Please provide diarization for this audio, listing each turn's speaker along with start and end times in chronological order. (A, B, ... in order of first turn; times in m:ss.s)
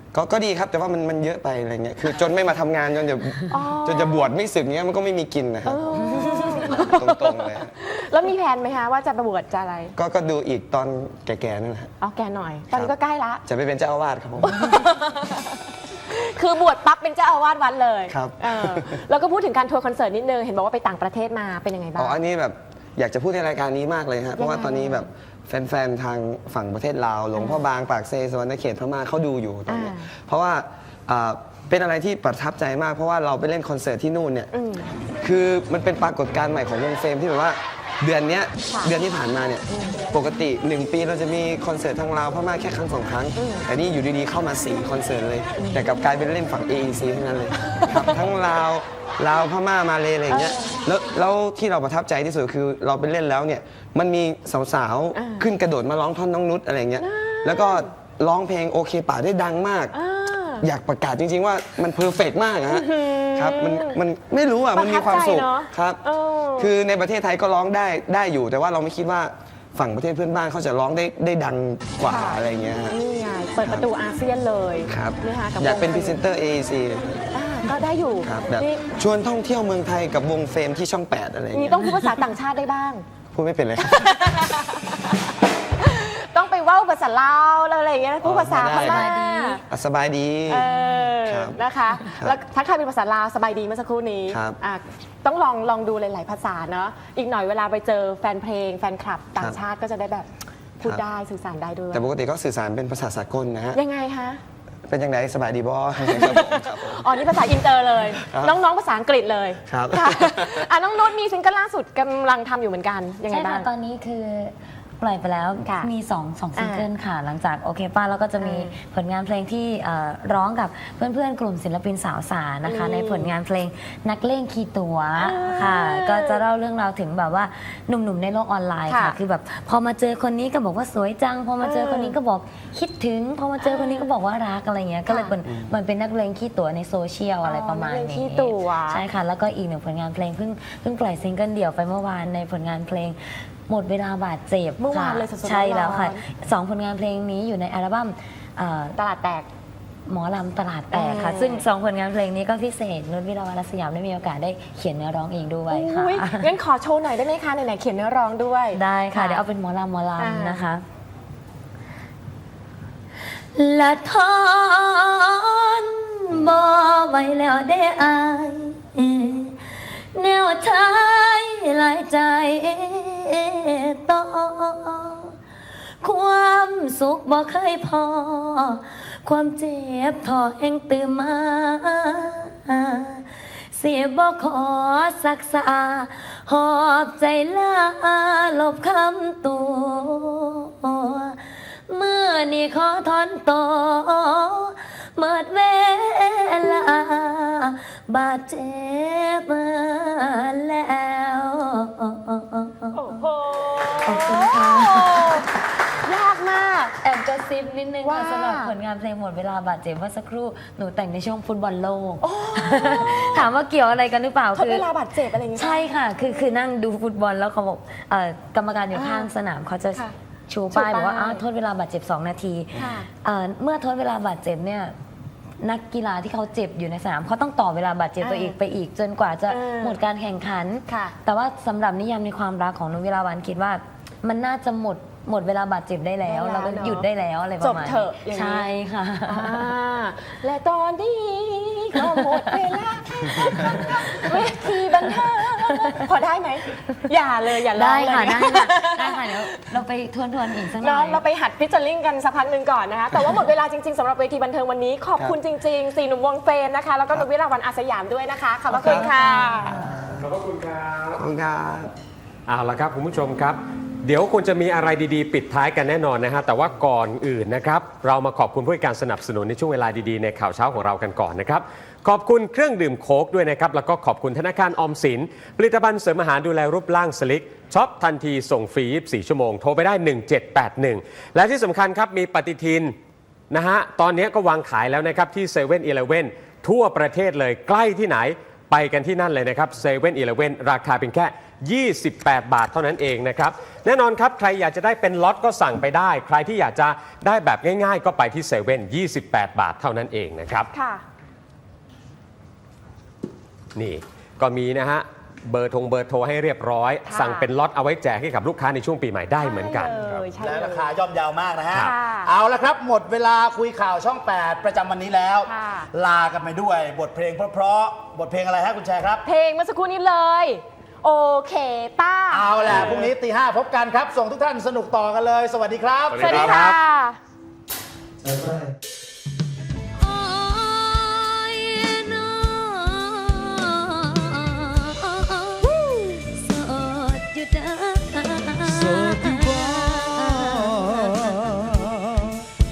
0:00.1-0:07.7 A
0:03.5-0:04.3 B
0:05.6-0:09.9 B
0:10.0-0:11.9 A
0:12.0-0:13.4 B
0:13.4-0:14.7 A
0:14.4-0:22.2 B
0:18.1-0:18.9 A
0:22.0-0:34.5 A
0:24.4-0:25.1 B
0:27.3-0:27.6 B
0:29.7-0:30.1 B
0:34.5-0:34.9 B
0:35.2-0:59.9 A
0:39.7-0:40.0 B
0:43.4-0:43.6 B
0:47.7-0:48.2 B
0:50.3-0:50.8 B
0:55.1-0:55.5 B
0:57.0-0:57.9 B
0:59.9-1:00.6 B
1:00.6-1:06.0 A
1:02.7-1:04.0 B
1:04.7-1:06.7 B
1:06.6-1:13.0 A
1:12.0-1:16.2 B
1:14.8-1:17.2 A
1:17.3-1:18.8 B
1:18.2-1:21.9 A
1:21.5-1:23.0 B
1:23.3-1:24.0 A
1:23.8-1:25.2 B
1:25.8-1:29.6 B
1:28.2-1:29.1 A
1:28.7-1:29.6 C
1:29.7-1:30.7 A
1:30.5-1:40.3 B
1:31.2-1:31.6 A
1:34.3-1:34.6 A
1:40.8-1:42.0 B
1:41.9-1:43.8 A
1:43.7-1:44.4 B
1:44.9-1:47.3 A
1:46.0-1:53.7 B
1:48.2-1:48.6 A
1:49.6-1:50.6 A
1:53.3-2:29.0 C
1:55.6-1:55.9 B
1:56.6-1:56.9 B
1:58.4-1:58.7 B
2:02.6-2:03.3 B
2:05.2-2:06.4 B
2:08.9-2:09.2 B
2:11.6-2:12.2 B
2:13.6-2:14.1 B
2:15.1-2:15.3 B
2:15.5-2:15.7 A
2:17.4-2:19.0 B
2:24.8-2:26.2 B
2:28.9-2:29.5 B
2:30.1-2:36.5 C
2:30.9-2:31.7 B
2:35.7-2:39.4 B
2:38.7-2:40.8 C
2:40.2-2:40.6 B
2:43.5-2:49.6 C
2:50.1-2:55.3 C
2:56.0-3:23.0 C
3:22.9-3:25.4 B
3:24.0-3:25.4 C
3:26.0-3:26.9 B
3:27.0-3:34.9 C
3:28.0-3:28.7 B
3:32.2-3:33.5 B
3:34.5-3:36.6 B
3:35.6-3:44.9 C
3:38.9-3:39.3 B
3:40.7-3:41.4 B
3:42.7-3:43.1 B
3:45.6-3:59.6 C
3:48.2-3:48.6 B
3:49.5-3:50.0 B
3:50.9-3:51.1 B
3:56.2-3:57.0 B
3:57.6-3:58.7 B
3:59.2-4:09.3 B
4:02.0-4:02.5 C
4:03.6-4:05.2 C
4:07.7-4:11.2 C
4:10.8-4:19.8 B
4:18.8-4:19.1 A
4:18.8-4:19.8 C
4:19.6-4:20.3 A
4:20.2-4:21.2 D
4:21.1-4:21.9 A
4:22.5-4:42.9 D
4:43.5-5:00.7 D
5:00.7-5:01.0 B
5:03.7-5:10.2 D
5:07.0-5:07.5 B
5:09.4-5:10.9 B
5:10.3-5:19.2 E
5:11.7-5:12.3 B
5:15.4-5:15.9 B
5:19.2-5:22.8 B
5:22.3-5:26.4 E
5:26.1-5:26.8 D
5:26.2-5:27.2 B
5:28.2-5:28.7 F
5:30.0-5:41.5 C
5:38.6-5:42.4 F